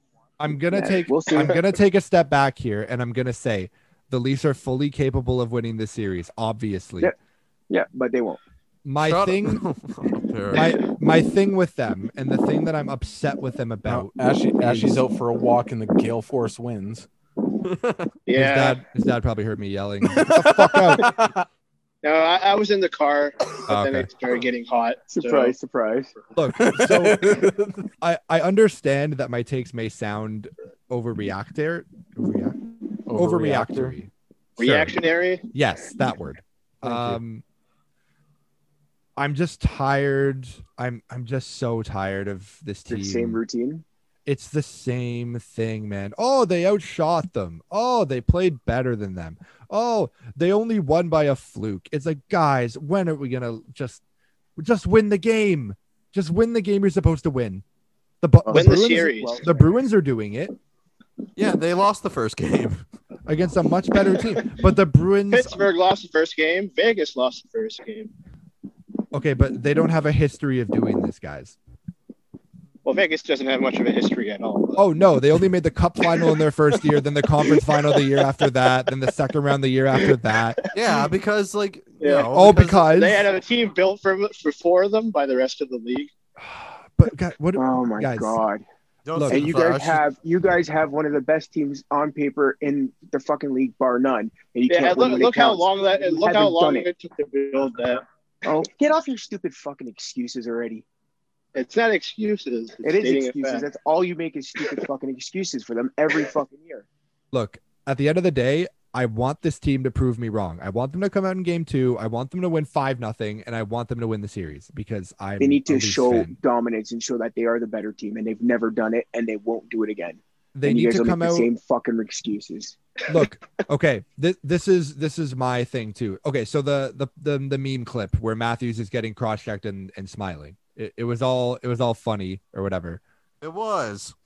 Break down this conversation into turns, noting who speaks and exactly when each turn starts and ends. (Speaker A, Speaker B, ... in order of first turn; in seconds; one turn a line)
Speaker A: 0.4-7.1
Speaker B: 0.7-1.6
Speaker B: 7.7-8.4
Speaker A: 8.8-9.6
Speaker C: 9.0-10.7
Speaker A: 10.5-15.0
Speaker D: 13.8-17.1
Speaker C: 17.6-18.1
Speaker E: 18.2-18.8
Speaker A: 18.3-21.1
Speaker D: 20.0-21.4
Speaker E: 22.0-25.5
Speaker A: 23.7-24.1
Speaker B: 25.1-26.1
Speaker A: 26.4-27.5
Speaker D: 26.5-27.9
Speaker A: 28.0-32.6
Speaker D: 33.1-34.0
Speaker A: 33.1-35.0
Speaker E: 34.6-35.4
Speaker A: 35.5-37.4
Speaker D: 36.8-37.2
Speaker A: 39.2-43.4
Speaker B: 42.9-43.8
Speaker A: 44.2-54.0
Speaker A: 54.6-57.6
Speaker A: 58.2-60.5
Speaker B: 58.5-59.7
Speaker E: 58.5-59.5
Speaker C: 61.4-62.8
Speaker A: 63.2-65.7
Speaker E: 65.3-68.1
Speaker A: 69.1-71.5
Speaker E: 72.8-74.8
Speaker A: 74.8-80.6
Speaker E: 77.4-78.3
Speaker E: 80.0-81.0
Speaker C: 80.7-82.9
Speaker E: 82.0-86.1
Speaker A: 82.3-83.3
Speaker A: 86.4-88.4
Speaker B: 87.6-88.6
Speaker C: 89.0-90.0
Speaker A: 89.1-89.6
Speaker B: 89.3-96.9
Speaker E: 94.7-98.0
Speaker B: 98.4-100.8
Speaker E: 101.5-103.7
Speaker B: 102.8-106.8
Speaker A: 107.3-116.3
Speaker B: 115.4-122.8
Speaker A: 120.5-121.5
Speaker A: 123.1-133.0
Speaker C: 133.4-134.1